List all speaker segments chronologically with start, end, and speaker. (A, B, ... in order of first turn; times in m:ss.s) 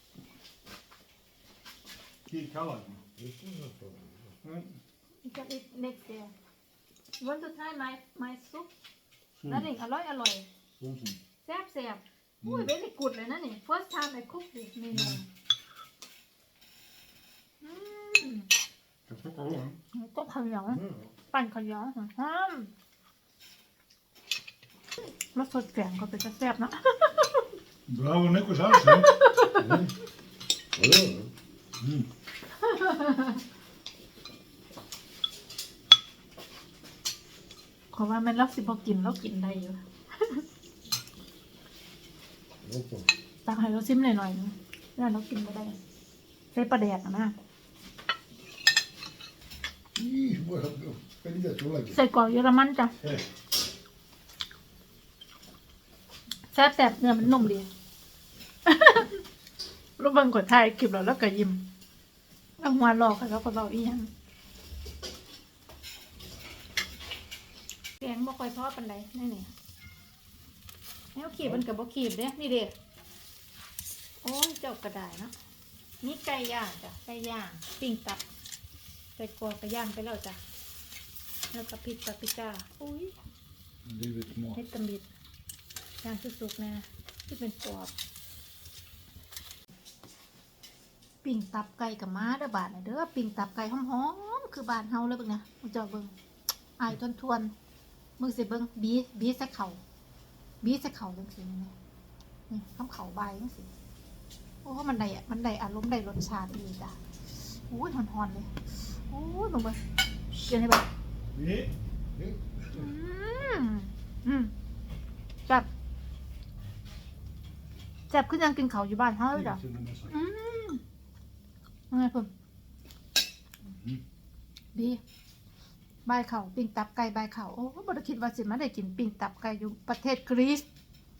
0:02.3-0:03.0 A
0:03.2-0:04.3 B
0:04.4-0:04.8 A
0:05.2-0:06.3 C
0:07.2-0:08.7 C
0:09.4-0:09.7 A
0:09.5-0:10.5 C
0:10.8-0:11.2 A
0:11.4-0:15.3 C
0:12.4-0:12.7 A
0:14.9-0:15.2 A
0:17.6-0:18.5 C
0:19.1-0:19.8 A
0:19.9-0:22.7 C
0:25.0-0:27.4 C
0:27.9-0:29.1 A
0:29.0-0:29.7 C
0:29.6-0:29.9 B
0:30.7-0:31.3 B
0:31.8-0:32.1 A
0:32.6-0:33.4 C
0:37.9-0:40.4 C
0:42.6-0:43.1 B
0:43.5-0:45.8 C
0:46.5-0:47.4 C
0:50.0-0:52.0 B
0:51.9-0:53.0 C
0:56.5-0:57.7 C
0:58.7-0:59.2 C
1:00.0-1:01.6 C
1:02.6-1:04.1 C
1:08.0-1:09.5 C
1:11.2-1:12.7 C
1:14.2-1:15.3 C
1:16.0-1:18.2 C
1:19.2-1:20.4 C
1:21.5-1:23.2 C
1:23.9-1:24.6 A
1:24.6-1:25.1 C
1:26.0-1:27.9 C
1:31.2-1:36.1 C
1:36.8-1:37.5 C
1:38.2-1:39.8 C
1:40.6-1:41.7 C
1:42.5-1:43.7 C
1:44.6-1:49.8 C
1:50.4-1:50.9 C
1:51.3-1:51.7 A
1:52.7-1:54.5 C
1:58.1-2:00.8 C
1:59.3-2:00.1 A
2:01.9-2:02.3 C
2:03.7-2:04.0 A
2:04.7-2:05.0 C
2:06.0-2:10.6 C